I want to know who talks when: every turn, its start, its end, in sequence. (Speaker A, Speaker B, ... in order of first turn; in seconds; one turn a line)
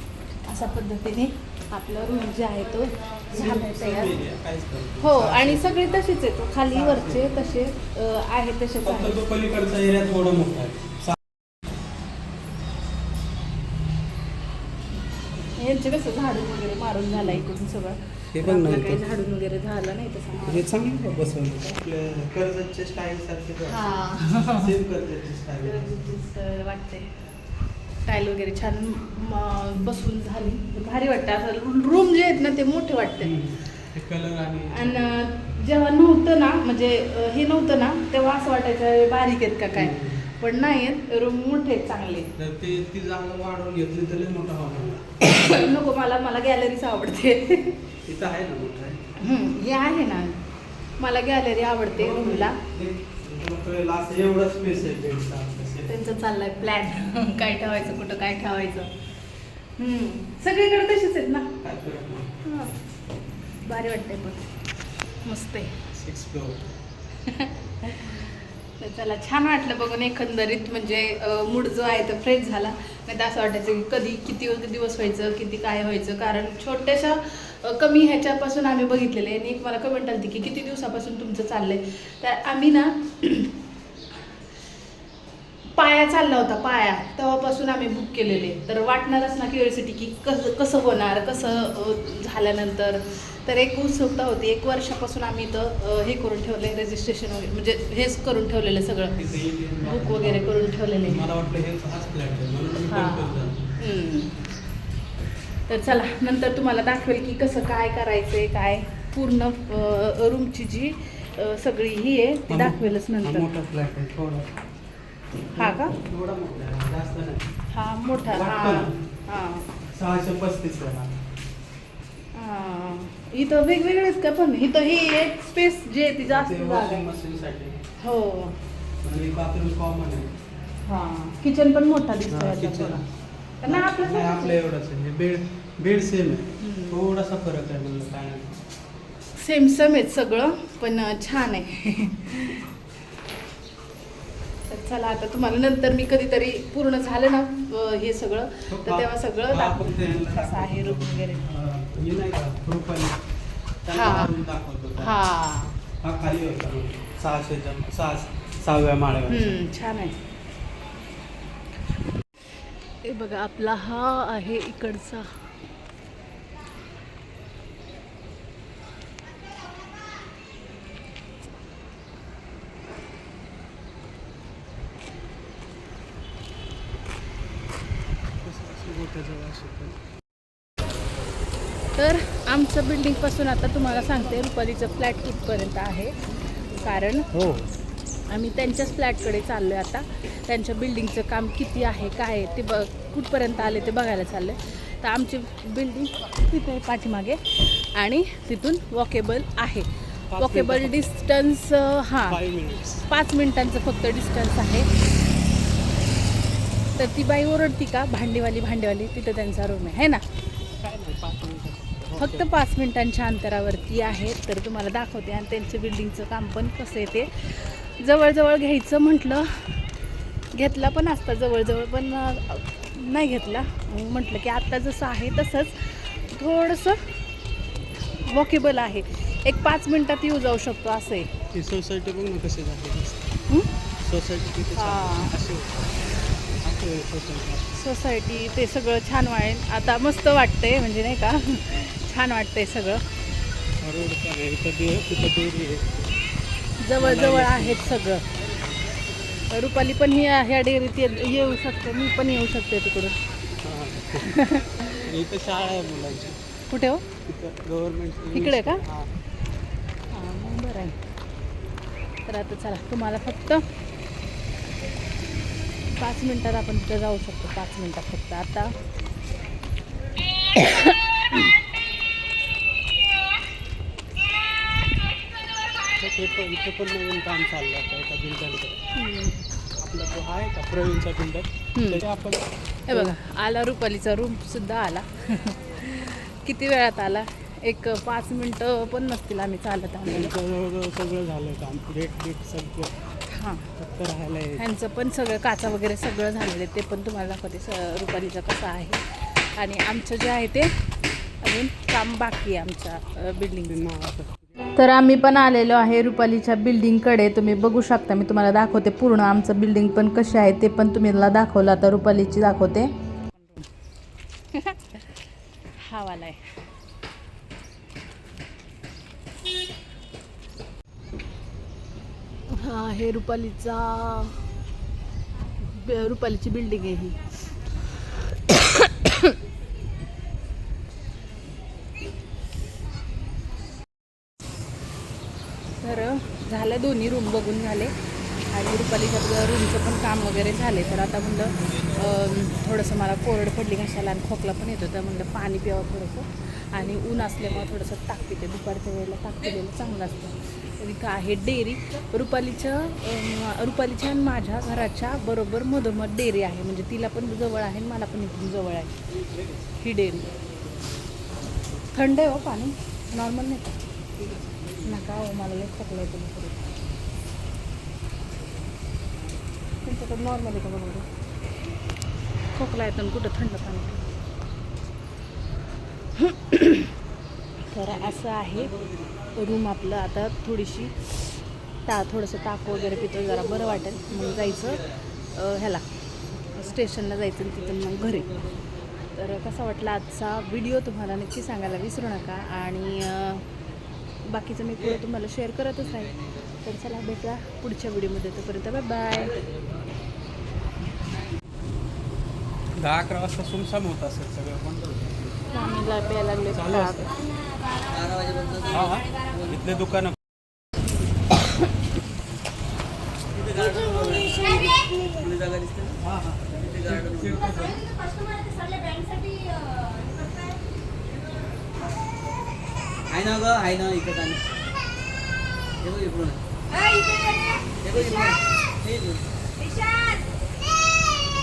Speaker A: 0.5-4.2
Speaker B: 3.3-6.1
Speaker A: 5.0-9.2
Speaker B: 6.7-7.3
Speaker B: 8.8-11.2
Speaker A: 15.6-20.7
Speaker B: 18.3-19.0
Speaker B: 20.4-26.1
Speaker A: 23.7-24.7
Speaker A: 25.6-27.2
Speaker A: 28.0-33.4
Speaker B: 33.2-35.1
Speaker A: 34.7-42.3
Speaker B: 39.8-40.2
Speaker B: 42.4-45.1
Speaker A: 45.2-47.8
Speaker B: 48.0-49.0
Speaker A: 49.2-50.4
Speaker A: 51.0-52.6
Speaker B: 51.9-55.9
Speaker A: 55.9-58.9
Speaker A: 59.8-61.5
Speaker B: 61.6-62.4
Speaker A: 62.4-62.7
Speaker A: 63.6-64.5
Speaker A: 65.2-65.8
Speaker B: 65.9-66.7
Speaker A: 67.2-83.5
Speaker A: 85.7-99.2
Speaker B: 99.1-103.6
Speaker A: 99.8-101.2
Speaker A: 102.9-104.4
Speaker A: 105.7-113.5
Speaker B: 112.5-114.6
Speaker A: 115.5-115.9
Speaker B: 115.5-117.5
Speaker A: 117.7-119.7
Speaker B: 118.2-119.0
Speaker B: 119.9-121.2
Speaker A: 122.3-127.0
Speaker B: 126.2-127.8
Speaker A: 128.0-128.6
Speaker B: 129.0-130.3
Speaker A: 130.8-133.0
Speaker B: 132.3-133.0
Speaker A: 133.6-134.6
Speaker B: 133.7-138.6
Speaker A: 136.6-137.0
Speaker A: 139.3-142.7
Speaker A: 144.7-151.4
Speaker B: 148.7-153.2
Speaker B: 153.8-155.2
Speaker A: 153.9-154.4
Speaker A: 155.0-155.8
Speaker B: 156.0-159.6
Speaker A: 159.3-160.2
Speaker A: 163.0-165.4
Speaker B: 178.4-180.0
Speaker A: 181.9-187.3
Speaker B: 187.3-187.7
Speaker A: 188.3-202.4
Speaker B: 200.3-201.1
Speaker B: 202.3-203.1
Speaker A: 203.1-204.9
Speaker A: 207.0-210.2
Speaker B: 210.8-212.5
Speaker A: 212.2-219.8
Speaker A: 220.5-227.1
Speaker A: 228.2-231.3
Speaker B: 231.5-233.4
Speaker B: 234.0-236.1
Speaker A: 234.7-235.3
Speaker B: 236.6-237.8
Speaker A: 237.7-243.0
Speaker B: 243.8-246.0
Speaker A: 246.8-248.2
Speaker B: 247.0-248.0
Speaker A: 249.5-253.2
Speaker B: 253.6-254.3
Speaker A: 254.2-254.8
Speaker B: 254.8-256.4
Speaker A: 256.7-257.1
Speaker B: 257.2-259.1
Speaker A: 258.3-258.8
Speaker A: 260.1-261.0
Speaker A: 262.3-263.6
Speaker A: 266.0-268.7
Speaker A: 270.6-271.4
Speaker B: 276.0-278.8
Speaker A: 278.9-279.5
Speaker B: 279.8-283.1
Speaker A: 281.7-282.0
Speaker A: 282.9-290.3
Speaker B: 290.1-293.0
Speaker A: 293.3-293.7
Speaker B: 293.8-294.6
Speaker A: 294.6-300.7
Speaker A: 301.4-303.8
Speaker B: 303.7-304.5
Speaker A: 304.7-312.9
Speaker A: 314.5-315.1
Speaker A: 315.8-316.5
Speaker A: 322.5-324.4
Speaker A: 325.6-327.3
Speaker A: 328.5-329.3
Speaker A: 335.8-337.9
Speaker A: 338.5-359.0
Speaker A: 359.8-360.3
Speaker A: 361.9-363.8
Speaker B: 364.2-365.0
Speaker A: 364.8-366.6
Speaker A: 369.8-371.1
Speaker A: 372.5-374.1
Speaker A: 376.2-376.9
Speaker A: 377.7-385.8
Speaker A: 386.5-388.4
Speaker A: 389.1-393.4
Speaker A: 394.2-399.4
Speaker B: 402.8-405.4
Speaker A: 405.5-407.1
Speaker B: 406.5-407.1
Speaker C: 407.9-408.7
Speaker B: 408.7-410.2
Speaker C: 413.4-415.9
Speaker B: 415.9-418.0
Speaker C: 418.1-420.2
Speaker C: 423.1-424.4
Speaker C: 425.8-429.2